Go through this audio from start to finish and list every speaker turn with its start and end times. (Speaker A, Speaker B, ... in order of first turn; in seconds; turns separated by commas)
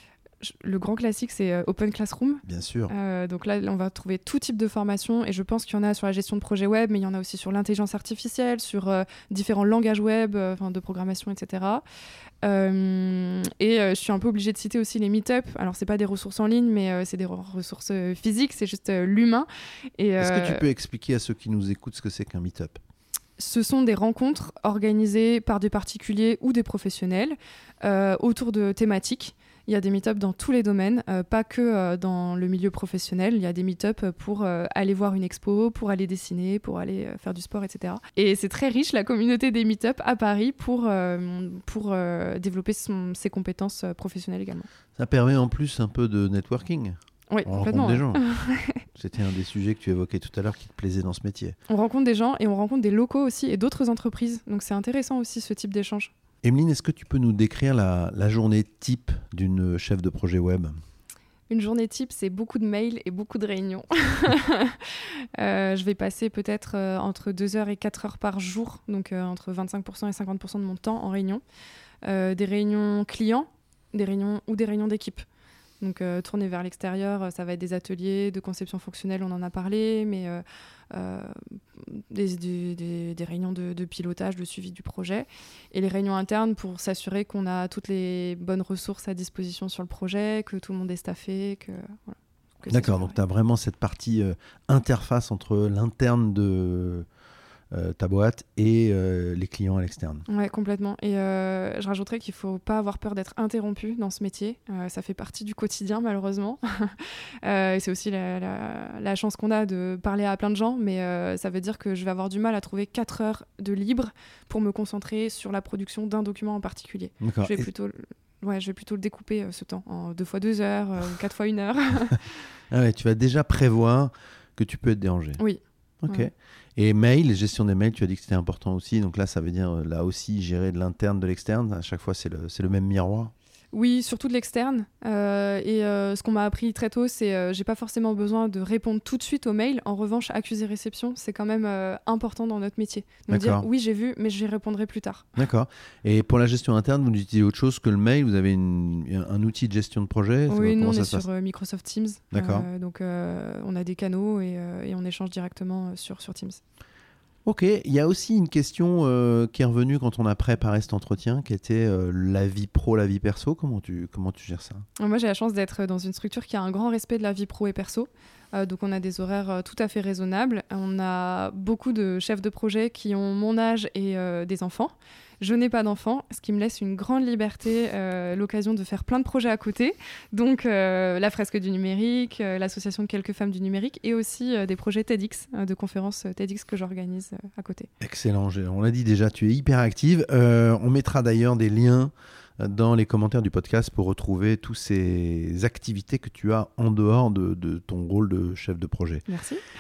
Speaker A: 0.4-11.8, Speaker B: 2.4-2.9, Speaker A: 12.4-20.6, Speaker B: 20.2-22.8, Speaker A: 23.4-44.7, Speaker B: 45.0-48.2, Speaker A: 47.3-48.9, Speaker B: 49.0-51.6, Speaker A: 51.7-56.1, Speaker B: 56.4-60.7, Speaker A: 61.5-71.4, Speaker A: 72.0-75.2, Speaker A: 75.8-93.2, Speaker B: 92.7-97.1, Speaker B: 97.7-100.3, Speaker A: 100.3-122.4, Speaker B: 117.2-117.7, Speaker B: 122.7-125.4, Speaker A: 125.4-126.3, Speaker B: 126.0-133.3, Speaker A: 133.7-145.3, Speaker B: 143.3-143.7, Speaker B: 145.4-151.3, Speaker A: 150.5-156.6, Speaker B: 152.3-152.7, Speaker B: 157.4-164.9, Speaker A: 165.0-187.9, Speaker B: 188.0-199.3, Speaker A: 199.3-199.6